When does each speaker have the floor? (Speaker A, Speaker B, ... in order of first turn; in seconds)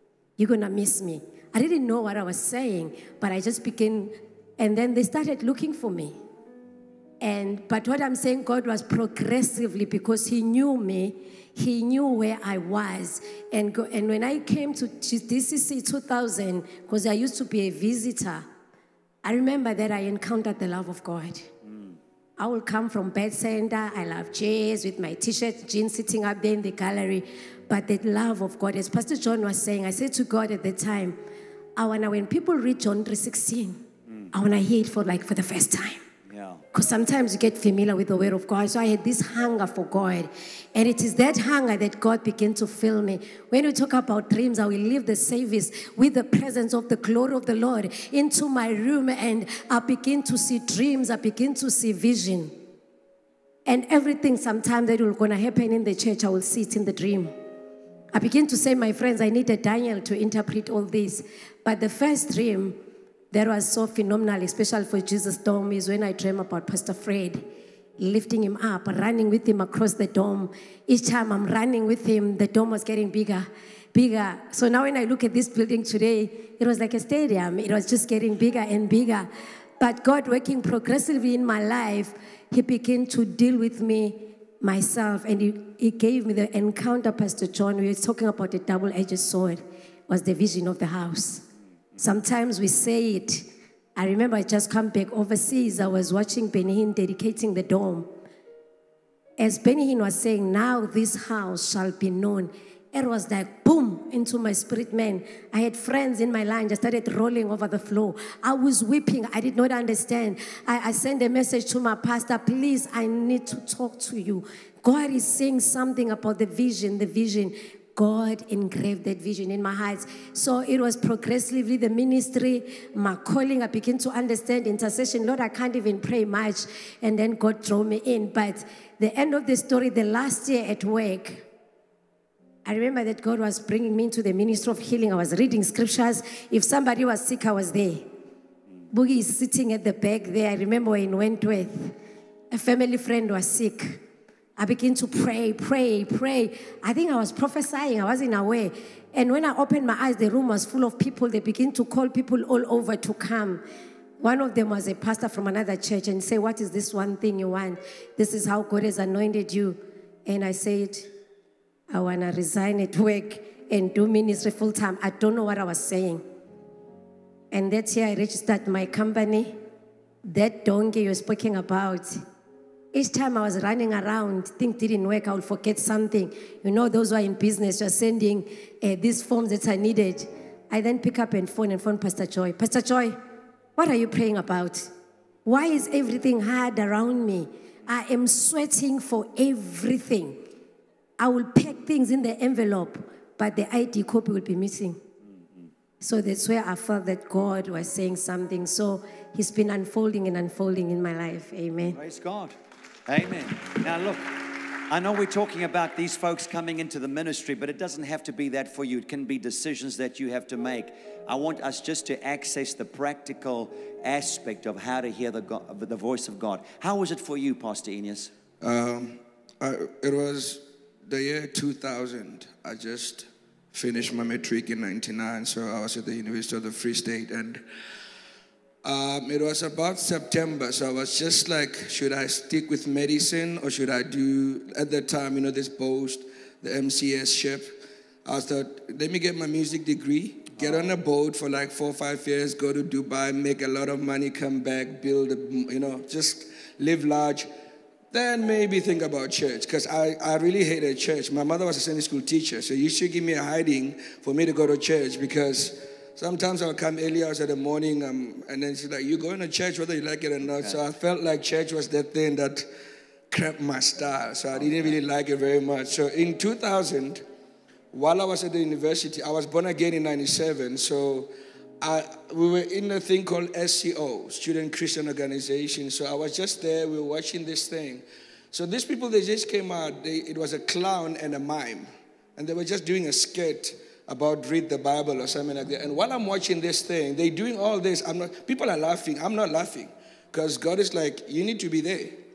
Speaker A: 0.4-6.1, 7.2-18.4, 19.2-21.5, 22.4-31.2, 31.8-33.8, 34.3-36.0, 36.7-52.5, 53.6-57.3, 58.1-62.8, 63.3-67.4, 68.0-91.5, 92.0-98.1, 99.4-131.4, 132.6-138.1, 138.9-141.9, 142.5-144.0, 144.6-153.6, 154.2-161.1, 161.9-166.2, 167.5-169.5, 170.2-172.2, 172.9-183.2, 183.8-184.9, 185.4-190.4, 191.2-195.0, 196.0-202.0
Speaker B: 21.6-21.9, 36.3-36.6, 201.9-202.5, 203.1-204.3, 204.9-218.3, 240.6-240.9, 264.5-265.0
Speaker C: 218.6-227.6, 228.8-247.5, 248.1-262.6, 263.3-267.2, 267.9-292.2